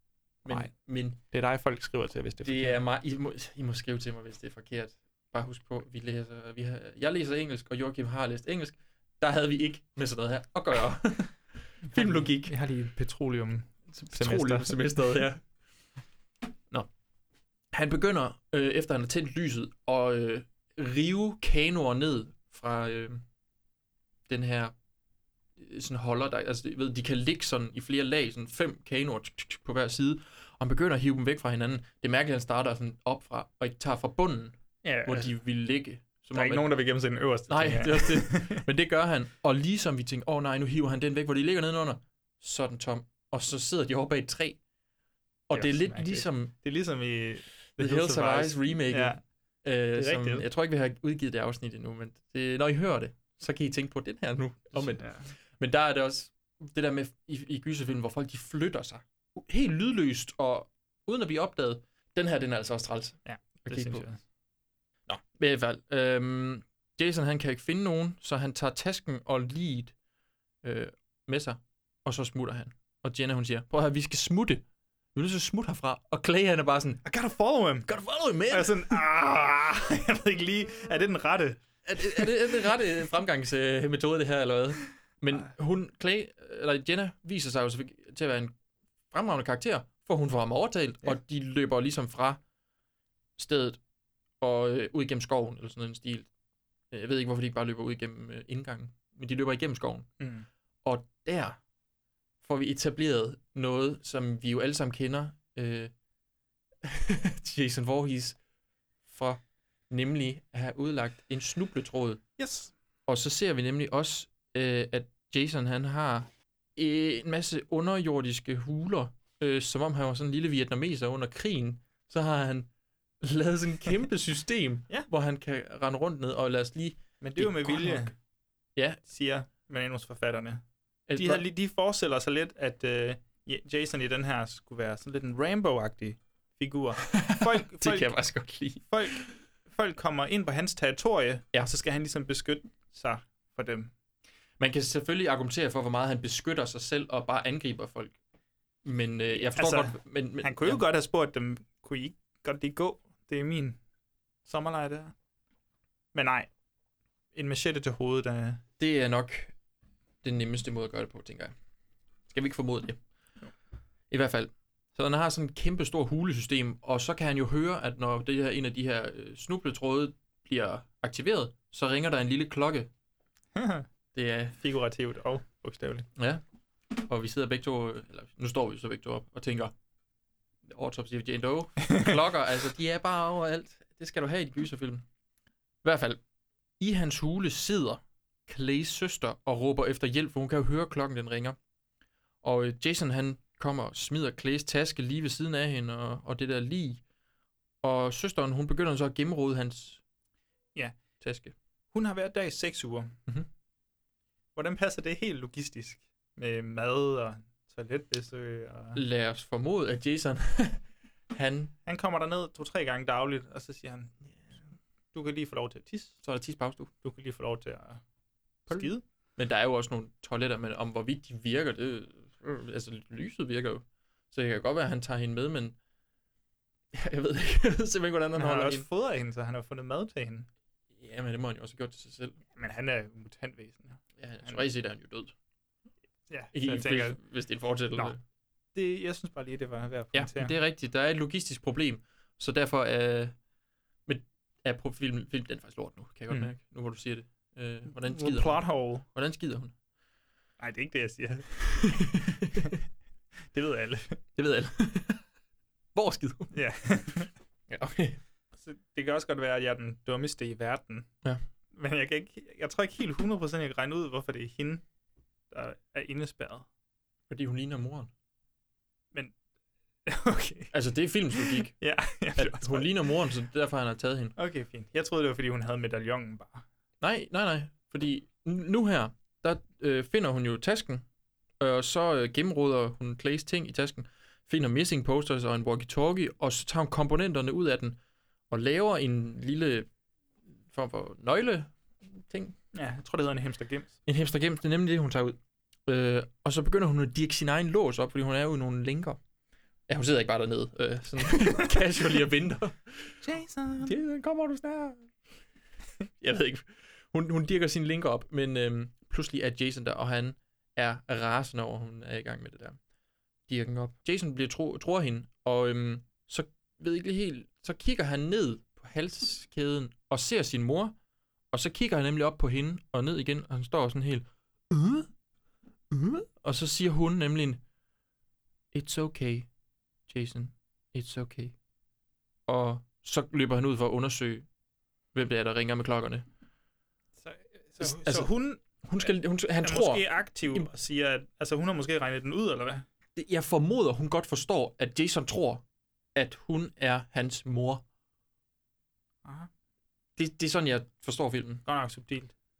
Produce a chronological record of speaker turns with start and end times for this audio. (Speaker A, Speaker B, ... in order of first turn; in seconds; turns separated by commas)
Speaker A: 0.4-1.2, Speaker B: 0.5-2.8, Speaker A: 2.4-12.5, Speaker B: 11.9-15.1, Speaker A: 13.9-15.4, Speaker A: 17.7-23.2, Speaker A: 24.3-24.7, Speaker A: 25.6-36.7, Speaker B: 34.8-35.3, Speaker B: 36.3-38.6, Speaker A: 37.5-44.6, Speaker A: 45.5-46.5, Speaker B: 45.5-49.2, Speaker A: 47.8-64.1, Speaker B: 49.9-50.5, Speaker B: 54.7-55.3, Speaker B: 63.2-64.2, Speaker A: 65.1-69.9, Speaker A: 70.6-74.6, Speaker A: 75.1-77.0, Speaker B: 77.0-77.9, Speaker A: 77.8-79.0, Speaker B: 78.5-81.6, Speaker A: 81.8-88.5, Speaker A: 89.1-92.4, Speaker A: 93.4-93.8, Speaker A: 94.4-96.3, Speaker A: 96.9-100.1, Speaker B: 100.2-100.5, Speaker A: 100.8-101.6, Speaker A: 102.4-105.9, Speaker A: 106.8-108.4, Speaker A: 109.1-112.2, Speaker B: 112.4-112.7, Speaker A: 113.1-122.7, Speaker A: 123.2-128.1, Speaker B: 127.2-128.1, Speaker B: 129.1-130.6, Speaker A: 131.1-131.4, Speaker B: 131.1-138.2, Speaker A: 137.2-138.9, Speaker B: 138.8-143.9, Speaker A: 144.6-148.2, Speaker A: 148.8-150.8, Speaker B: 149.3-153.8, Speaker B: 154.4-155.1, Speaker B: 156.1-156.5, Speaker B: 157.3-158.6, Speaker A: 158.8-159.5, Speaker A: 160.2-161.5, Speaker A: 162.3-163.0, Speaker A: 164.1-172.9, Speaker B: 173.5-173.9, Speaker A: 174.1-174.6, Speaker B: 174.6-176.1, Speaker A: 176.2-176.4, Speaker A: 177.0-179.7, Speaker A: 180.7-185.0, Speaker A: 185.8-186.2, Speaker A: 186.8-191.6, Speaker A: 192.4-197.0, Speaker A: 197.8-200.0, Speaker A: 201.2-201.5, Speaker B: 201.9-203.1, Speaker B: 204.6-209.0, Speaker A: 208.9-211.7, Speaker B: 211.8-214.1, Speaker B: 215.1-216.2, Speaker A: 216.2-216.9, Speaker B: 217.0-218.0, Speaker B: 218.7-219.0, Speaker A: 218.7-225.8, Speaker A: 226.9-228.8, Speaker B: 228.3-230.5, Speaker A: 230.9-232.4, Speaker B: 232.5-234.6, Speaker A: 234.2-235.3, Speaker B: 236.3-237.2, Speaker A: 236.5-238.2, Speaker B: 238.7-240.5, Speaker A: 240.1-243.3, Speaker A: 244.1-249.7, Speaker B: 247.9-249.0, Speaker B: 250.6-252.7, Speaker A: 251.9-252.7, Speaker B: 253.5-254.2, Speaker A: 254.3-255.2, Speaker A: 255.9-256.5, Speaker B: 256.5-257.3, Speaker A: 257.7-258.2, Speaker B: 258.6-261.1, Speaker B: 261.7-264.8, Speaker B: 265.5-266.6, Speaker A: 267.3-268.1, Speaker B: 270.1-270.7, Speaker A: 270.7-271.7, Speaker B: 271.3-273.1, Speaker A: 272.4-274.4, Speaker B: 274.4-276.6, Speaker A: 277.0-281.0, Speaker A: 281.6-288.0, Speaker A: 288.5-289.9, Speaker A: 290.7-292.6, Speaker B: 292.7-294.0, Speaker A: 294.1-299.2, Speaker A: 299.9-303.2, Speaker B: 303.2-303.9, Speaker A: 303.8-305.1, Speaker A: 306.2-312.8, Speaker A: 313.5-320.9, Speaker A: 321.5-325.1, Speaker A: 325.9-327.6, Speaker A: 328.7-329.5, Speaker A: 330.1-331.5, Speaker A: 332.5-334.4, Speaker A: 335.1-336.2, Speaker B: 337.2-339.1, Speaker A: 337.8-338.3, Speaker A: 338.8-340.7, Speaker B: 339.6-342.8, Speaker A: 343.1-345.6, Speaker A: 346.1-347.8, Speaker A: 350.2-351.6, Speaker B: 351.6-352.3